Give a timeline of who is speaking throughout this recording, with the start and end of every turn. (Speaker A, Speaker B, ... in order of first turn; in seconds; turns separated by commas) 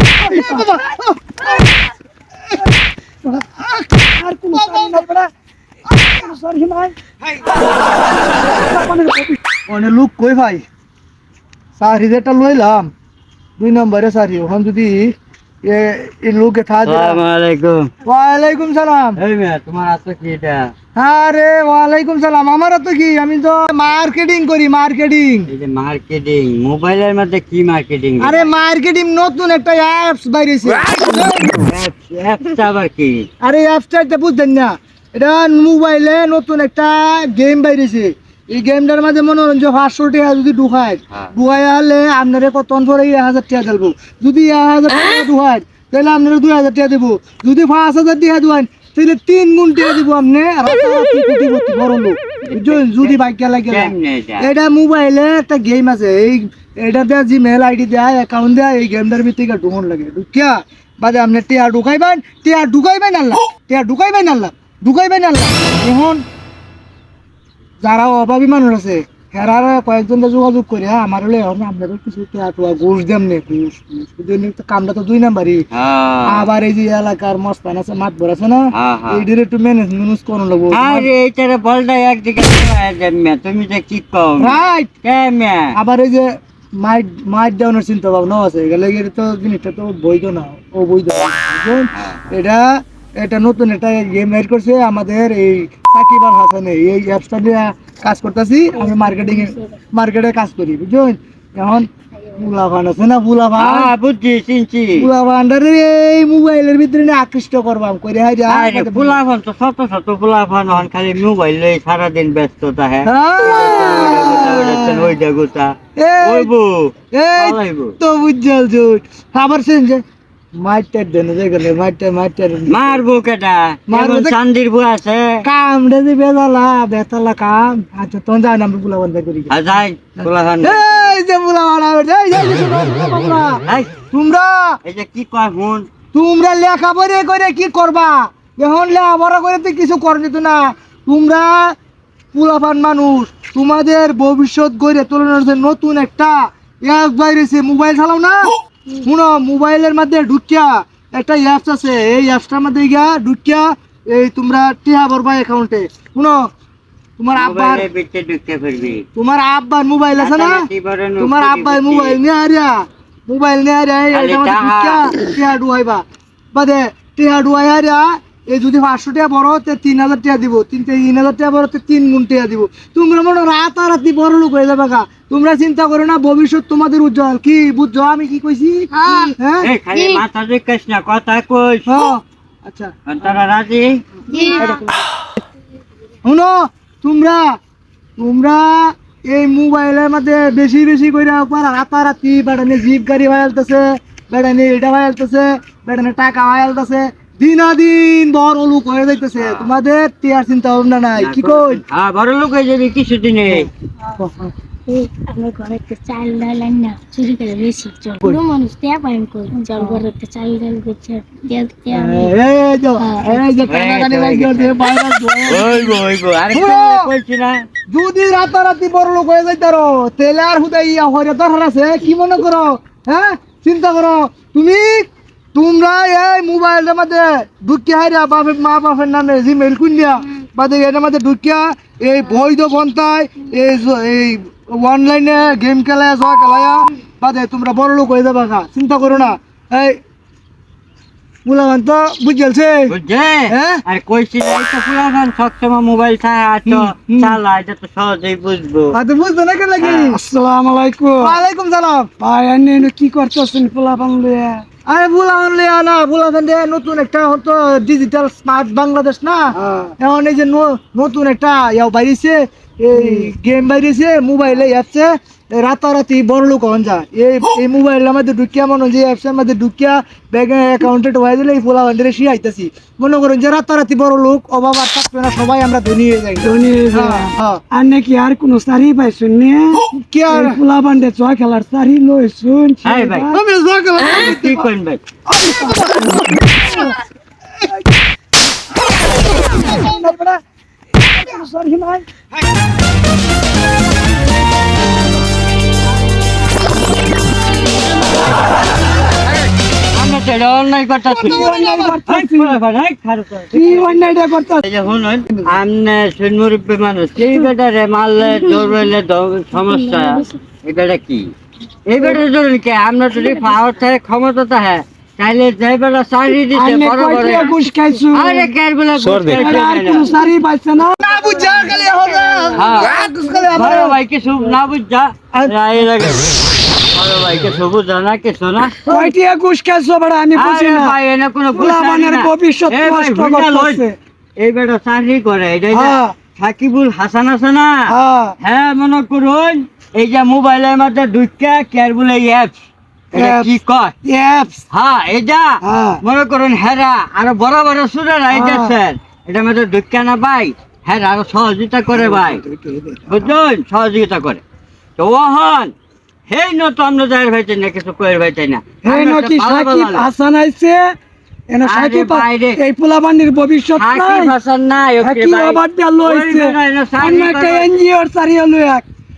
Speaker A: 0.2-0.7, Speaker B: 0.2-1.6, Speaker A: 3.2-3.5, Speaker A: 4.2-5.3, Speaker B: 4.5-5.0, Speaker A: 6.0-9.4, Speaker B: 9.7-10.6, Speaker B: 11.8-12.9, Speaker B: 13.6-15.1, Speaker B: 15.6-17.2, Speaker C: 16.8-17.9, Speaker B: 18.0-19.2, Speaker C: 19.2-20.7, Speaker B: 20.9-25.5, Speaker C: 25.5-28.5, Speaker B: 28.2-31.6, Speaker C: 31.6-33.3, Speaker B: 33.4-66.2, Speaker C: 52.5-53.1, Speaker C: 53.7-54.5, Speaker B: 67.8-75.6, Speaker C: 75.7-76.5, Speaker B: 76.2-81.1, Speaker C: 78.7-79.2, Speaker C: 80.7-85.7, Speaker B: 84.4-84.9, Speaker B: 85.7-86.3, Speaker B: 86.8-92.6, Speaker B: 93.2-103.9, Speaker C: 103.6-105.1, Speaker B: 104.9-109.2, Speaker C: 108.5-117.9, Speaker B: 113.0-115.1, Speaker B: 116.0-116.5, Speaker B: 117.1-120.0, Speaker B: 120.6-123.0, Speaker C: 122.7-125.4, Speaker B: 123.9-124.3, Speaker B: 125.4-129.6, Speaker C: 129.5-131.2, Speaker B: 130.6-134.8, Speaker C: 133.7-133.9, Speaker C: 134.8-135.9, Speaker B: 136.1-141.7, Speaker B: 142.3-156.4, Speaker B: 157.2-157.8, Speaker C: 157.3-159.1, Speaker B: 159.1-160.6, Speaker C: 160.2-162.2, Speaker B: 161.2-166.0, Speaker C: 164.1-165.1, Speaker B: 166.5-179.7, Speaker D: 179.0-179.3, Speaker C: 179.6-182.1, Speaker D: 179.9-180.2, Speaker B: 181.8-182.9, Speaker C: 183.1-184.0, Speaker D: 184.3-184.8, Speaker B: 184.4-184.9, Speaker B: 186.2-187.4, Speaker B: 188.2-201.8, Speaker C: 199.4-199.7, Speaker C: 201.2-203.7, Speaker B: 203.5-204.5, Speaker D: 204.9-212.3, Speaker B: 211.9-216.0, Speaker D: 213.0-213.4, Speaker C: 213.7-214.8, Speaker C: 215.4-217.6, Speaker B: 216.5-217.1, Speaker B: 217.9-240.0, Speaker B: 241.4-242.9, Speaker C: 242.9-249.0, Speaker B: 243.5-243.8, Speaker B: 246.7-247.4, Speaker B: 248.9-250.2, Speaker C: 249.8-250.1, Speaker A: 250.1-251.3, Speaker B: 251.2-252.1, Speaker A: 252.2-254.6, Speaker B: 254.9-259.4, Speaker A: 259.5-259.9, Speaker B: 260.0-277.6, Speaker A: 262.9-263.3, Speaker A: 276.4-283.4, Speaker B: 279.9-280.6, Speaker C: 282.8-283.4, Speaker B: 283.3-284.6, Speaker C: 284.0-285.0, Speaker A: 285.3-286.9, Speaker B: 285.7-286.6, Speaker A: 289.4-290.4, Speaker A: 291.0-292.1, Speaker C: 299.9-301.5, Speaker A: 301.2-302.6, Speaker B: 301.2-301.9, Speaker C: 302.1-311.3, Speaker A: 303.5-304.6, Speaker D: 308.5-308.9, Speaker D: 309.5-310.3, Speaker C: 311.9-317.6, Speaker A: 316.5-318.5, Speaker C: 318.1-320.1, Speaker A: 319.2-321.1, Speaker B: 320.9-324.0, Speaker C: 322.5-328.8, Speaker A: 328.9-330.9, Speaker C: 330.3-333.8, Speaker A: 331.5-333.9, Speaker C: 334.4-337.9, Speaker A: 335.7-336.1, Speaker A: 337.9-338.4, Speaker C: 338.4-342.6, Speaker C: 343.1-343.9, Speaker A: 343.1-344.6, Speaker C: 344.7-352.4, Speaker A: 345.6-346.0, Speaker A: 348.3-348.8, Speaker A: 352.0-353.3, Speaker C: 353.1-354.4, Speaker C: 355.0-355.7, Speaker C: 356.3-360.1, Speaker A: 358.8-360.8, Speaker A: 361.5-364.3, Speaker C: 361.6-362.6, Speaker C: 363.7-367.7, Speaker A: 365.0-368.8